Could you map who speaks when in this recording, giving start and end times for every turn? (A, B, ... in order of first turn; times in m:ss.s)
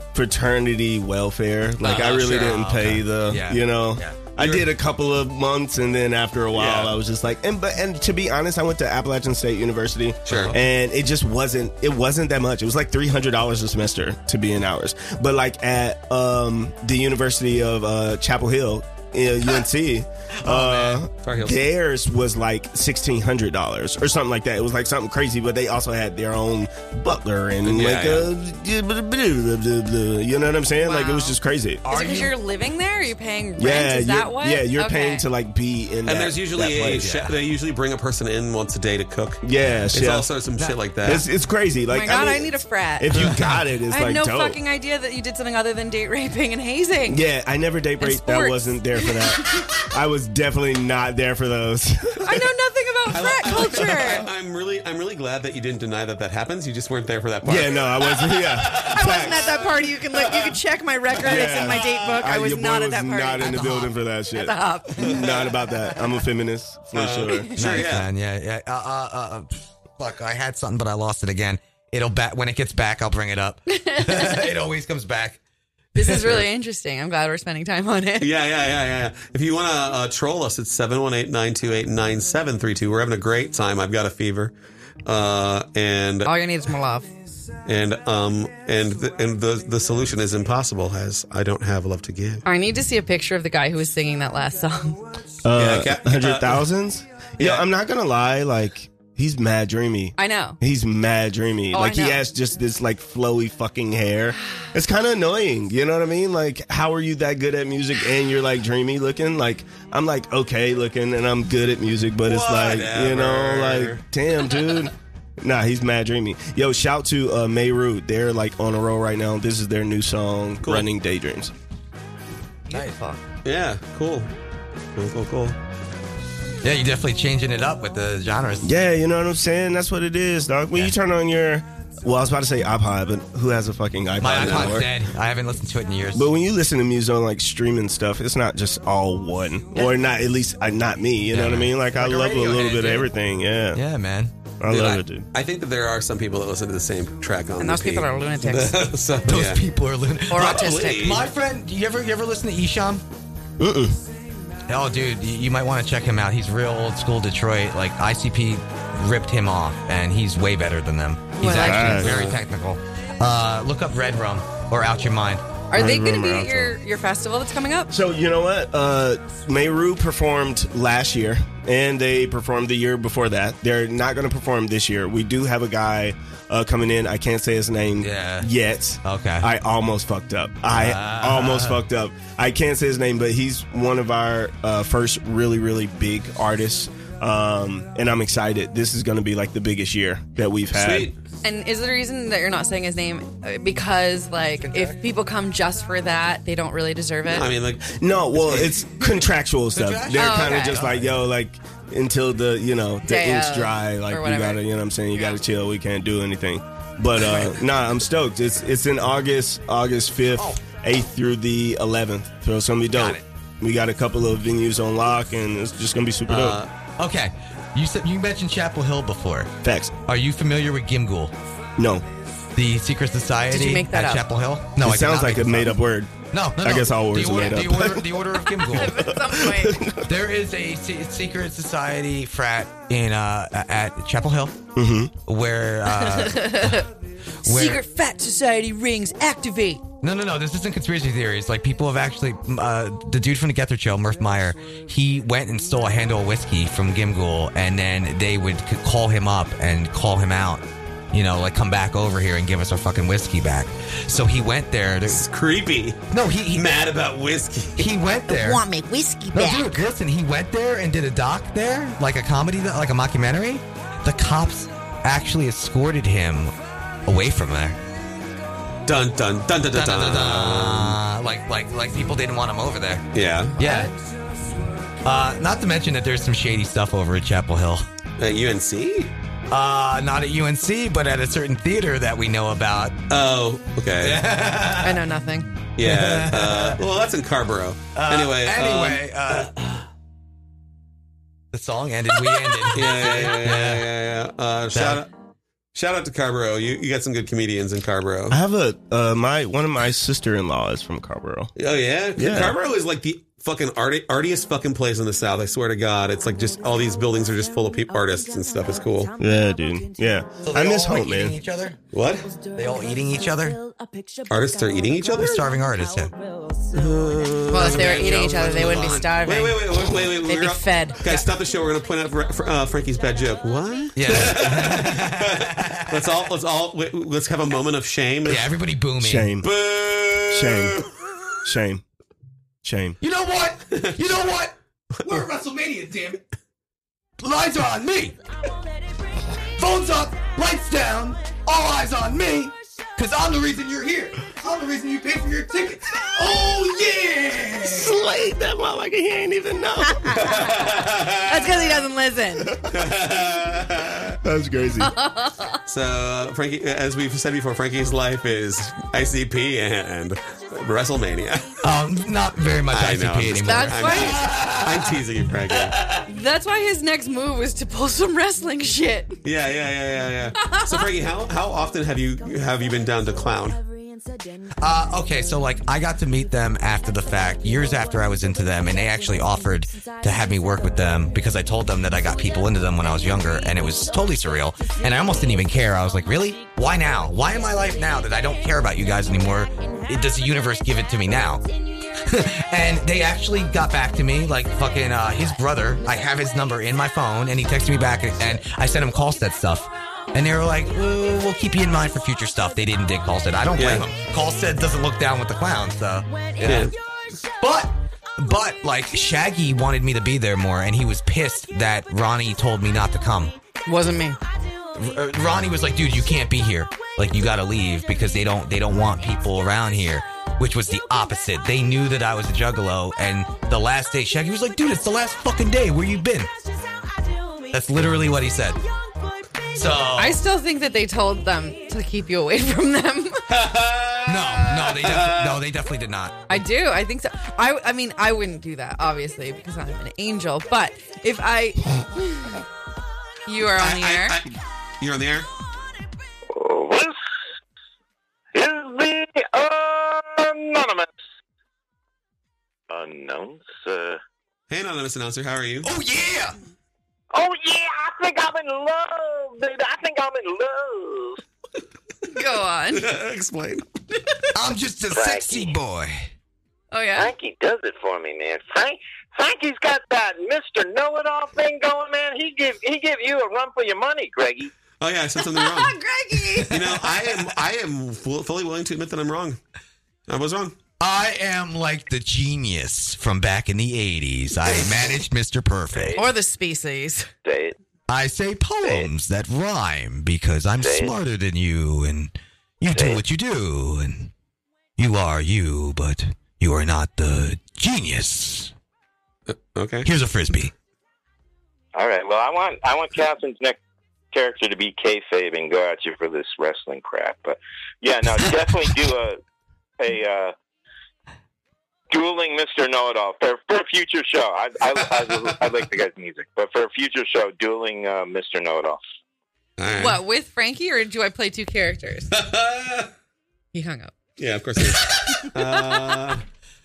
0:00.1-0:31.8 A
0:01.8-0:04.2 B
0:01.8-0:02.5 C
0:04.4-0:04.7 C
0:06.5-0:06.9 C
0:10.3-0:10.6 C
0:10.3-0:10.6 B
0:20.4-0:21.0 B
0:21.2-0:21.7 C
0:27.6-0:28.3 C
0:30.8-0:35.2 D
0:31.8-0:32.4 B
0:33.6-0:37.1 A
0:36.0-0:41.2 C
0:36.8-0:37.4 B
0:39.4-0:40.3 A
0:41.0-0:44.6 A
0:41.9-0:43.3 D
0:43.1-0:43.5 C
0:43.9-0:47.2 D
0:47.1-0:52.5 A
0:48.0-0:49.8 D
0:52.2-0:54.3 D
0:53.1-0:59.3 C
0:57.4-0:59.6 A
0:58.9-1:05.2 D
1:00.1-1:00.6 C
1:01.2-1:07.5 A
1:01.3-1:01.9 C
1:03.4-1:03.9 B
1:05.0-1:05.4 C
1:06.9-1:08.1 C
1:07.6-1:15.4 B
1:13.7-1:14.5 D
1:15.9-1:18.3 D
1:16.0-1:16.4 B
1:18.2-1:24.5 C
1:25.0-1:26.3 C
1:26.2-1:27.1 D
1:27.6-1:32.4 C
1:32.4-1:35.0 D
1:35.4-2:01.5 A
1:35.5-1:36.7 C
1:37.4-1:37.7 C
1:40.2-1:40.6 D
1:41.7-1:42.2 D
1:52.2-1:54.0 C
2:00.6-2:00.9 C
2:02.7-2:03.2 B
2:03.4-2:04.3 C
2:04.9-2:05.6 C
2:06.6-2:08.7 B
2:08.6-2:14.9 A
2:14.2-2:16.3 B
2:14.4-2:14.8 C
2:16.1-2:23.8 A
2:21.3-2:23.1 B
2:23.7-2:24.3 B
2:24.6-2:25.2 A
2:24.7-2:29.6 C
2:27.6-2:28.8 D
2:29.2-2:33.0 B
2:30.3-2:31.1 D
2:30.3-2:31.2 C
2:33.6-2:34.0 A
2:34.7-2:45.5 B
2:41.4-2:42.0 D
2:41.5-2:42.1 A
2:41.9-2:42.4 C
2:45.7-2:47.9 D
2:45.7-2:46.7 A
2:47.9-3:11.1 A
2:58.0-2:58.5 B
2:59.0-2:59.5 B
3:00.7-3:01.8 B
3:10.7-3:11.2 C
3:11.4-3:17.5 D
3:14.6-3:15.0 B
3:17.3-3:18.9 C
3:17.8-3:36.6 A
3:19.7-3:21.2 B
3:20.1-3:20.8 D
3:23.0-3:25.4 D
3:30.4-3:30.6 B
3:32.9-3:33.2 B
3:36.3-3:36.7 C
3:37.0-3:39.5 B
3:39.6-3:40.0 A
3:40.0-3:41.3 B
3:41.8-3:42.0 A
3:42.5-3:45.8 B
3:43.5-3:44.3 D
3:44.8-3:50.1 A
3:46.3-3:49.2 B
3:48.7-3:49.8 D
3:50.0-3:54.6 B
3:54.8-3:55.1 A
3:55.2-3:56.8 B
3:55.9-3:56.9 D
3:57.4-3:59.8 D
3:57.4-3:57.8 B
4:00.0-4:15.2 B
4:15.1-4:17.9 C
4:16.1-4:16.7 B
4:17.8-4:18.7 B
4:18.3-4:19.7 D
4:19.3-4:26.5 B
4:27.0-4:27.8 B
4:28.8-4:31.0 C
4:29.7-4:33.0 B
4:33.1-4:33.6 C
4:33.6-4:33.9 B
4:35.0-4:37.8 B
4:38.2-4:39.1 C
4:39.5-4:43.0 B
4:43.1-4:44.2 C
4:44.0-4:45.1 B
4:44.8-4:45.5 D
4:45.8-4:49.8 C
4:45.8-4:46.8 B
4:47.9-4:49.5 B
4:51.5-4:53.9 B
4:52.7-4:55.1 C
4:54.7-4:55.1 B
4:55.7-4:58.4 C
4:58.3-5:01.5 A
5:01.6-5:09.1 C
5:02.2-5:02.6 A
5:09.2-5:11.4 A
5:10.4-5:11.8 B
5:11.9-5:12.3 C
5:12.5-5:13.6 B
5:14.3-5:15.4 C
5:15.1-5:16.1 B
5:16.7-5:28.5 C
5:17.5-5:21.0 D
5:17.5-5:18.8 B
5:23.9-5:26.1 B
5:28.2-5:29.3 B
5:29.0-5:29.5 A
5:29.4-5:31.3 C
5:30.3-5:30.8 A
5:31.4-5:31.8 A
5:32.6-5:33.0 A
5:33.0-5:36.2 B
5:35.0-5:35.3 C
5:37.2-5:38.2 B
5:39.5-5:48.0 B
5:47.6-5:50.2 A
5:49.9-5:52.5 D
5:50.1-5:51.6 C
5:52.7-5:54.2 C
5:54.2-5:54.9 A
5:54.8-5:55.6 D
5:55.6-6:01.6 C
6:01.6-6:05.0 B
6:02.7-6:05.8 C
6:03.4-6:04.2 D
6:06.1-6:09.2 D
6:09.2-6:13.6 C
6:10.4-6:10.8 D
6:14.6-6:31.4 B
6:32.0-6:46.7 B
6:43.6-6:43.8 C
6:46.4-6:46.7 C
6:47.4-6:53.4 B
6:53.6-6:54.2 D
6:54.7-7:06.3 B
7:07.5-7:08.6 B
7:09.5-7:10.2 B
7:10.0-7:13.2 D
7:13.3-7:15.4 C
7:14.0-7:16.4 B
7:16.3-7:22.4 D
7:23.3-7:24.2 D
7:23.5-7:25.3 C
7:26.3-7:27.0 E
7:28.3-7:30.9 E
7:32.7-7:34.0 E
7:34.5-7:35.7 C
7:35.6-7:36.4 B
7:37.1-7:41.2 E
7:42.1-7:42.9 D
7:42.7-7:43.6 C
7:44.3-7:46.1 B
7:44.9-7:45.5 E
7:46.7-7:47.1 D
7:47.0-7:54.5 E
7:54.8-7:55.7 C
7:55.2-7:56.5 D
7:56.1-7:57.2 B
7:56.5-7:59.4 C
8:00.1-8:00.6 C
8:00.8-8:06.0 B
8:05.7-8:06.1 E
8:06.0-8:07.1 D
8:07.2-8:07.5 E
8:07.9-8:14.1 B
8:10.6-8:10.9 E
8:12.7-8:13.0 E
8:14.8-8:18.5 B
8:19.3-8:19.9 C
8:19.8-8:20.5 B
8:21.7-8:23.6 E
8:24.1-8:29.2 E
8:29.8-8:30.3 E
8:31.9-8:38.8 E
8:39.6-8:40.0 C
8:39.7-8:42.1 D
8:42.1-8:42.9 C
8:43.5-8:43.9 D
8:44.2-8:46.2 C
8:44.9-8:46.2 D